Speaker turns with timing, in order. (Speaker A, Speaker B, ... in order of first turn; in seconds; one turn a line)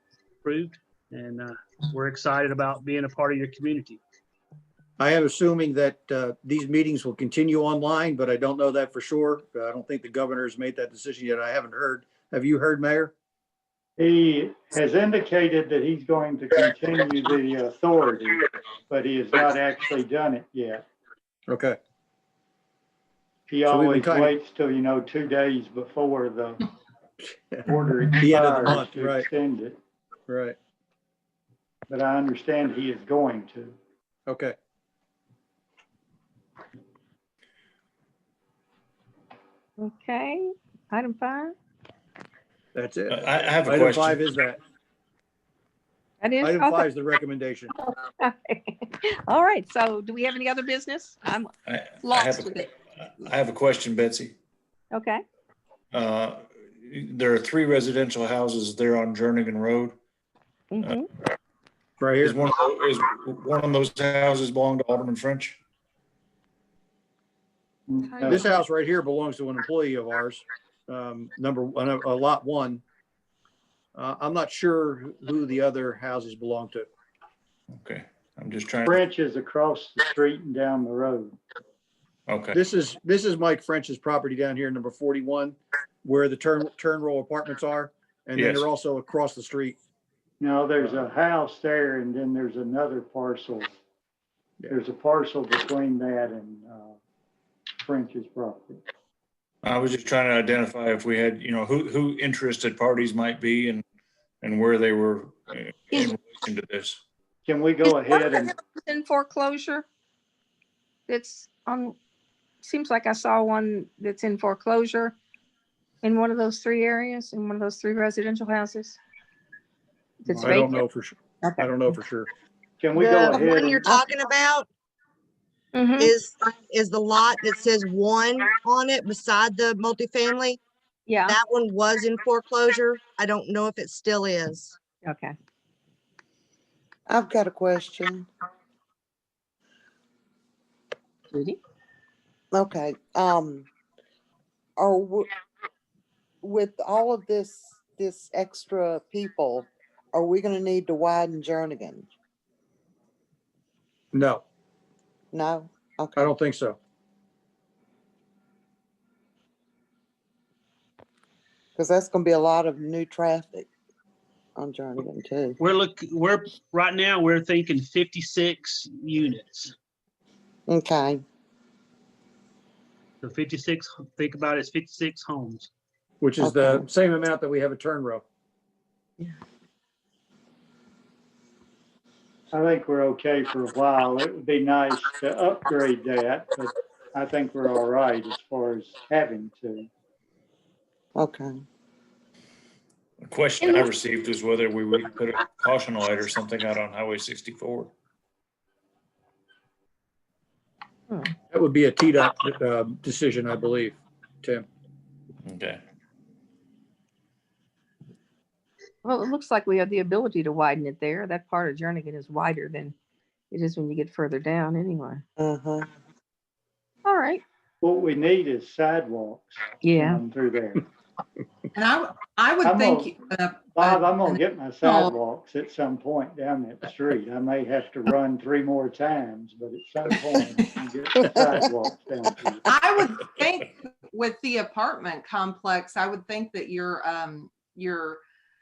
Speaker A: 0.4-4.0
Speaker B: 5.0-13.1
Speaker C: 14.0-20.8
Speaker B: 21.5-21.8
Speaker C: 23.5-26.6
Speaker B: 23.7-24.3
Speaker B: 27.2-29.3
Speaker C: 27.6-29.8
Speaker B: 30.3-30.6
Speaker C: 31.9-33.8
Speaker B: 34.3-34.5
Speaker D: 39.8-41.5
Speaker B: 42.7-44.6
Speaker E: 43.1-44.2
Speaker D: 46.2-46.9
Speaker B: 46.4-47.7
Speaker D: 47.8-51.5
Speaker E: 51.7-54.3
Speaker D: 52.0-52.7
Speaker D: 54.9-55.2
Speaker E: 55.9-60.0
Speaker D: 60.7-61.1
Speaker B: 62.0-62.4
Speaker E: 62.2-65.6
Speaker C: 67.9-68.5
Speaker D: 68.1-68.4
Speaker B: 68.2-72.8
Speaker B: 73.9-76.9
Speaker E: 77.7-79.0
Speaker C: 78.8-81.3
Speaker E: 82.3-82.6
Speaker B: 82.5-89.8
Speaker E: 88.3-88.7
Speaker C: 90.4-93.7
Speaker C: 94.7-97.0
Speaker C: 97.8-98.8
Speaker E: 99.6-103.8
Speaker E: 104.4-107.0
Speaker C: 107.5-108.5
Speaker D: 107.8-109.8
Speaker D: 111.1-112.0
Speaker D: 112.6-115.1
Speaker D: 116.0-119.0
Speaker D: 120.2-120.8
Speaker B: 120.3-122.3
Speaker D: 121.4-121.7
Speaker C: 122.8-124.0
Speaker F: 123.0-124.7
Speaker G: 123.3-124.0
Speaker D: 125.7-126.1
Speaker F: 126.0-130.6
Speaker D: 131.1-131.4
Speaker F: 131.3-134.8
Speaker D: 135.0-135.3
Speaker G: 137.1-138.3
Speaker D: 141.3-141.6
Speaker G: 142.5-143.7
Speaker G: 144.8-145.3
Speaker G: 146.4-152.1
Speaker B: 154.1-154.4
Speaker G: 155.3-156.3
Speaker B: 156.2-156.8
Speaker G: 161.8-163.7
Speaker G: 164.6-165.6
Speaker A: 165.6-169.7
Speaker G: 170.7-171.2
Speaker A: 173.2-175.7
Speaker B: 176.2-178.2
Speaker G: 176.4-176.9
Speaker C: 182.5-189.9
Speaker G: 191.2-191.6
Speaker E: 193.2-197.9
Speaker D: 193.6-193.9
Speaker B: 201.5-204.7
Speaker E: 205.4-205.8
Speaker D: 209.0-212.9
Speaker D: 213.5-215.2
Speaker G: 215.4-215.9
Speaker D: 217.1-217.4
Speaker C: 217.8-220.8
Speaker D: 219.8-220.2
Speaker H: 221.7-225.1
Speaker C: 222.6-223.1
Speaker C: 223.7-232.7
Speaker H: 232.7-238.2